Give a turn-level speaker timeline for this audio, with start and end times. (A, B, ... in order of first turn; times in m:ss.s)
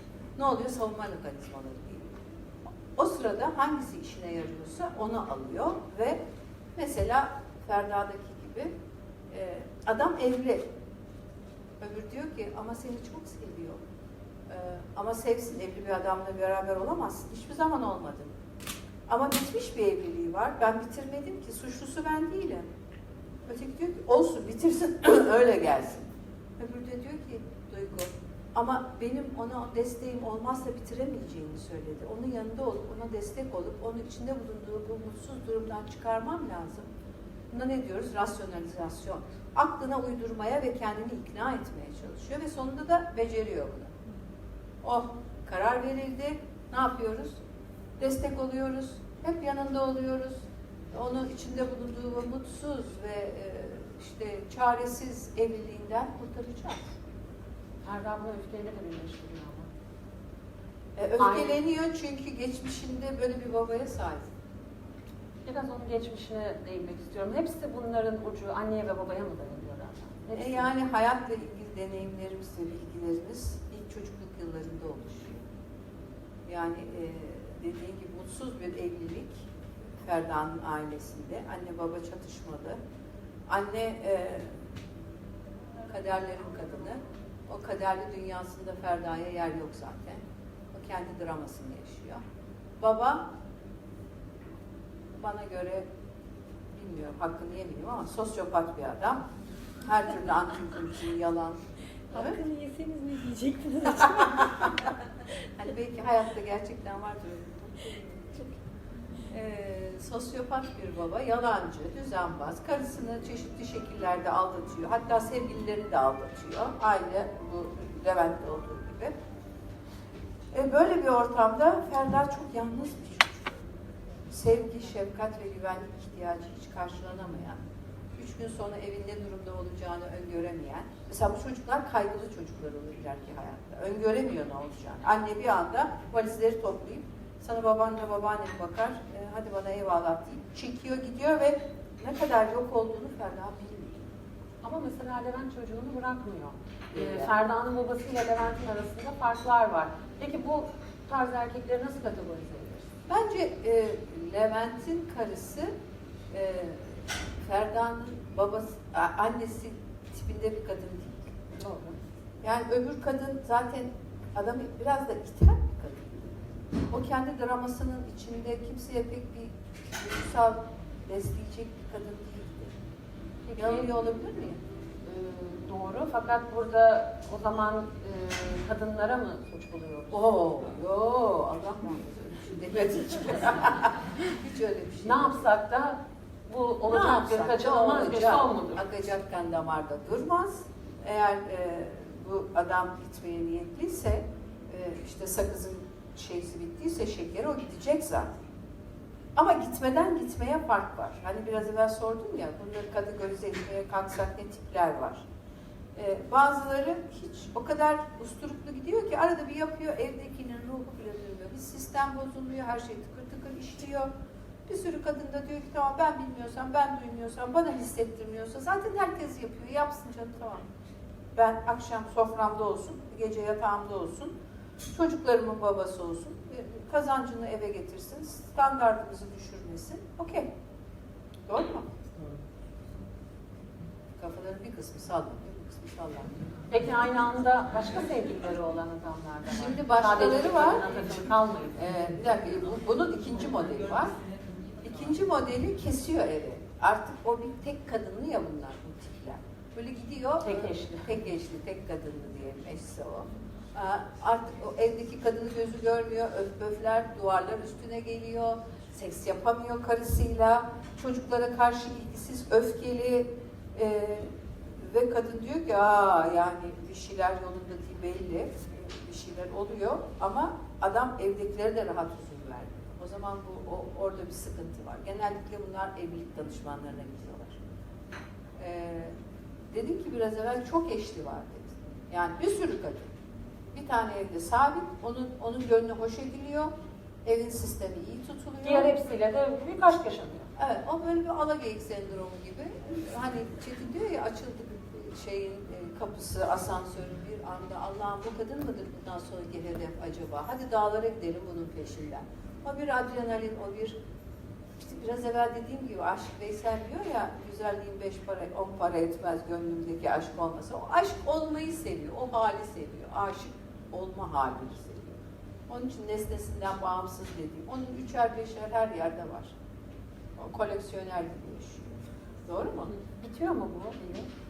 0:00.4-0:02.2 A
0:03.0-0:06.2 A
0:06.8-0:08.7 A
0:09.3-0:10.7 A
0:11.8-0:13.8 A
0:14.5-0:18.3 A
0:19.1-0:22.7 A
0:23.4-0:36.9 A
0:37.5-0:43.9 A
0:44.8-0:47.4 A
0:48.0-0:56.9 A
0:57.8-0:59.7 B
1:01.0-1:04.3 A
1:01.2-1:01.6 B
1:05.4-1:10.7 B
1:10.3-1:15.4 A
1:16.4-1:19.5 A
1:20.0-1:22.8 A
1:23.5-1:24.6 A
1:25.9-1:30.2 A
1:30.7-1:32.2 A
1:32.8-1:33.2 A
1:35.1-1:35.8 A
1:36.7-1:39.2 A
1:39.8-1:41.6 A
1:42.1-1:44.9 C
1:42.1-1:42.4 A
1:45.6-1:48.2 A
1:49.3-1:59.1 A
2:00.5-2:03.6 A
2:04.3-2:07.6 A
2:08.1-2:24.1 A
2:24.6-2:32.9 B
2:26.9-2:27.3 A
2:33.1-2:35.7 A
2:36.3-2:41.3 A
2:41.6-2:42.0 B
2:42.4-2:52.7 A
2:53.4-2:53.9 B
2:53.6-2:54.6 A
2:55.0-3:00.3 B
3:00.1-3:05.5 A
3:05.0-3:08.8 B
3:06.9-3:18.4 A
3:19.4-3:25.2 A
3:25.9-3:34.1 A
3:34.7-3:40.7 A
3:41.3-3:44.3 A
3:44.9-3:50.5 A
3:51.5-3:51.9 A
3:54.2-3:56.4 A
3:56.7-4:02.0 B
3:59.5-4:01.2 A
4:01.7-4:04.1 A
4:04.8-4:37.6 A
4:10.4-4:11.1 B
4:38.6-4:39.1 A
4:39.7-4:43.1 A
4:43.7-4:46.7 A
4:47.2-4:49.0 A
4:48.6-4:50.5 B
4:50.6-5:04.0 A
5:04.8-5:19.5 A
5:20.4-5:22.9 A
5:22.9-5:24.3 B